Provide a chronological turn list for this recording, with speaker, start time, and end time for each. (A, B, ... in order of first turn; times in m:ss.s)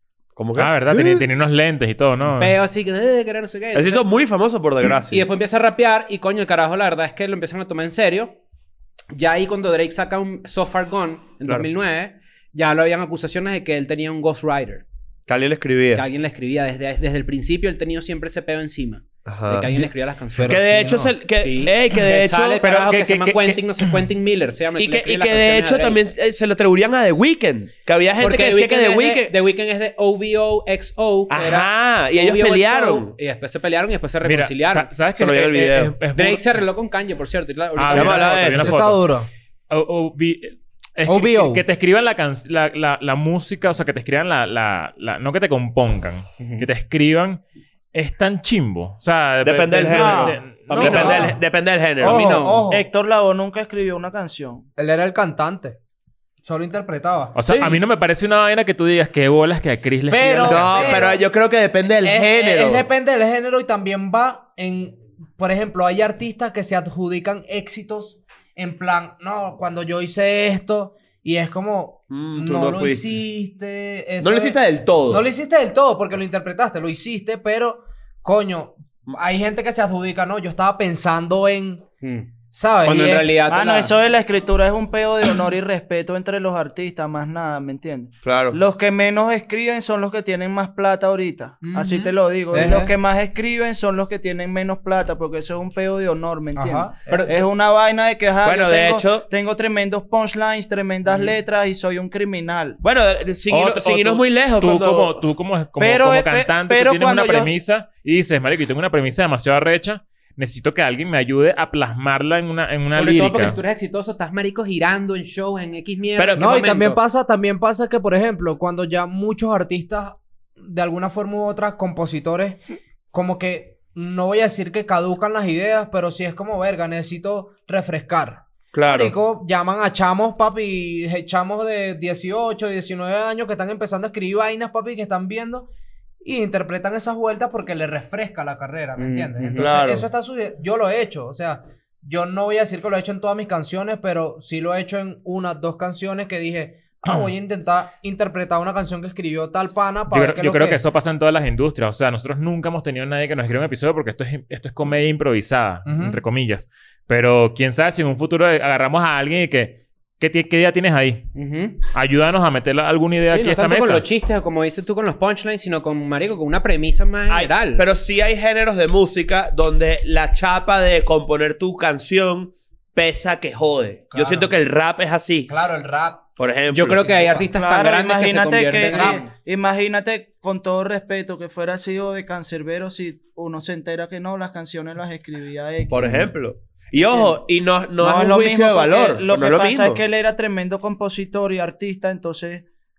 0:00.4-0:01.2 A
0:00.6-0:02.6 B
0:02.3-0:04.0 C
0:03.7-0:05.3 A
0:05.1-0:08.4 C
0:09.1-0:14.8 C
0:15.3-0:16.0 A
0:15.9-0:20.6 C
0:19.3-0:19.8 A
0:20.3-0:21.1 D
0:20.4-0:22.6 A
0:21.4-0:26.0 C
0:22.6-0:23.9 B
0:24.8-0:29.3 A
0:28.2-0:34.9 C
0:31.3-0:33.2 A
0:34.2-0:36.5 B
0:35.2-0:36.0 A
0:36.1-0:38.7 C
0:37.8-0:39.0 B
0:37.9-0:38.8 A
0:38.6-0:39.3 D
0:39.7-0:47.4 B
0:41.1-0:41.6 D
0:46.4-0:46.7 C
0:47.9-0:51.3 B
0:49.4-0:52.5 A
0:49.9-0:50.4 E
0:50.7-0:51.4 C
0:50.8-0:51.3 D
0:52.0-0:52.7 C
0:52.0-0:52.8 D
0:52.1-0:54.6 E
0:54.8-0:55.8 D
0:56.4-0:57.4 D
0:57.4-1:01.1 B
0:57.5-0:57.8 A
1:00.1-1:01.2 D
1:00.4-1:02.9 A
1:02.0-1:21.9 D
1:12.1-1:13.1 A
1:14.2-1:15.3 A
1:22.0-1:22.3 C
1:22.5-1:23.3 D
1:22.8-1:23.9 C
1:23.4-1:42.8 E
1:28.2-1:28.6 A
1:31.6-1:32.9 D
1:36.6-1:37.3 D
1:38.4-1:39.3 A
1:42.8-1:45.2 A
1:43.5-1:53.6 B
1:45.8-1:47.6 E
1:52.9-1:57.0 C
1:56.2-1:56.5 A
1:56.4-2:02.6 D
2:03.1-2:15.7 D
2:08.7-2:09.2 A
2:16.2-2:30.8 D
2:19.0-2:19.8 C
2:19.6-2:20.1 A
2:30.1-2:41.3 B
2:35.8-2:36.2 D
2:41.3-2:41.8 C
2:41.8-2:44.1 B
2:43.3-2:47.8 C
2:47.3-2:55.5 A
2:54.1-2:54.6 D
2:55.5-2:56.2 D
2:56.4-2:57.3 A
2:56.7-2:59.3 C
2:57.4-3:06.3 E
2:58.9-2:59.2 D
3:05.9-3:10.0 A
3:07.0-3:07.4 E
3:08.0-3:12.6 E